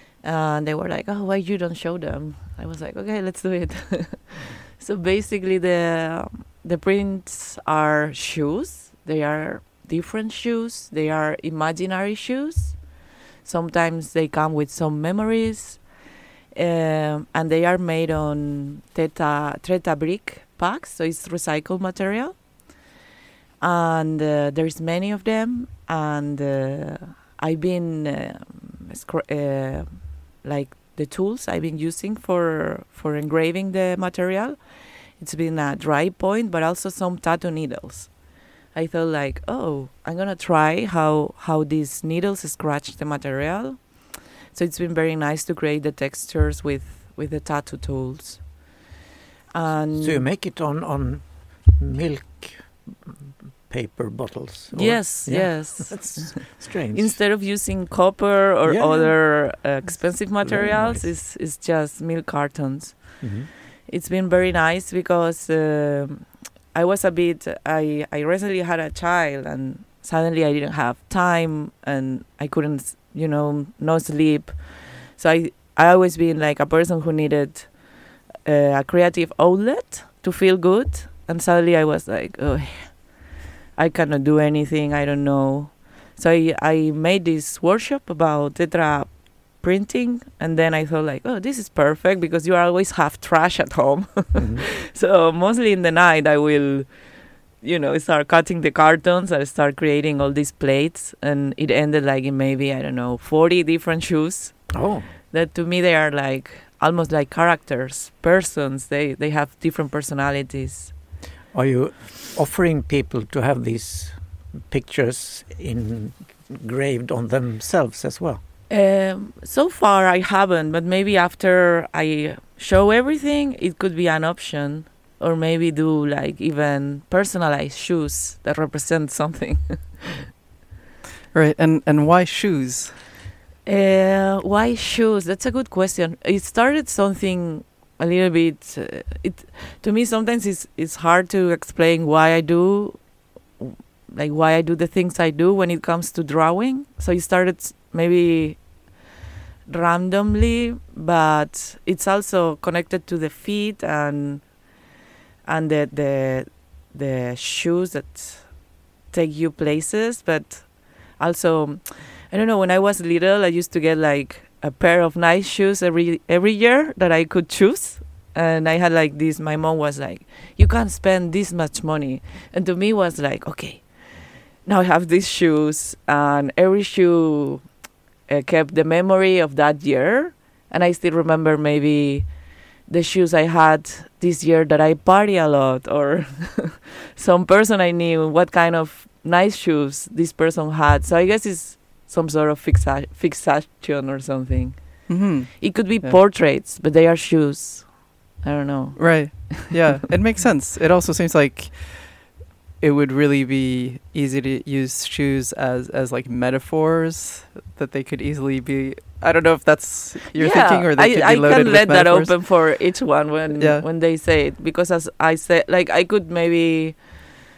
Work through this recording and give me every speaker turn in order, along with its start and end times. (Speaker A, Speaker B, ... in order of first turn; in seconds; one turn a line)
Speaker A: 0.2-22.7
Speaker A: 23.6-48.8
Speaker A: 49.5-50.3
Speaker B: 49.9-57.2
Speaker A: 54.7-104.7
Speaker B: 58.6-59.2
Speaker B: 60.4-61.1
Speaker B: 63.2-63.5
Speaker B: 94.4-94.6
Speaker B: 104.7-105.1
Speaker A: 105.3-110.9
Speaker B: 111.5-118.4
Speaker A: 118.7-130.1
Speaker C: 131.3-133.0
Speaker A: 133.7-149.0
Speaker A: 149.7-154.8
Speaker A: 155.4-199.7
Speaker C: 195.1-196.2
Speaker C: 199.0-212.6
Speaker A: 210.3-217.3
Speaker C: 213.6-213.8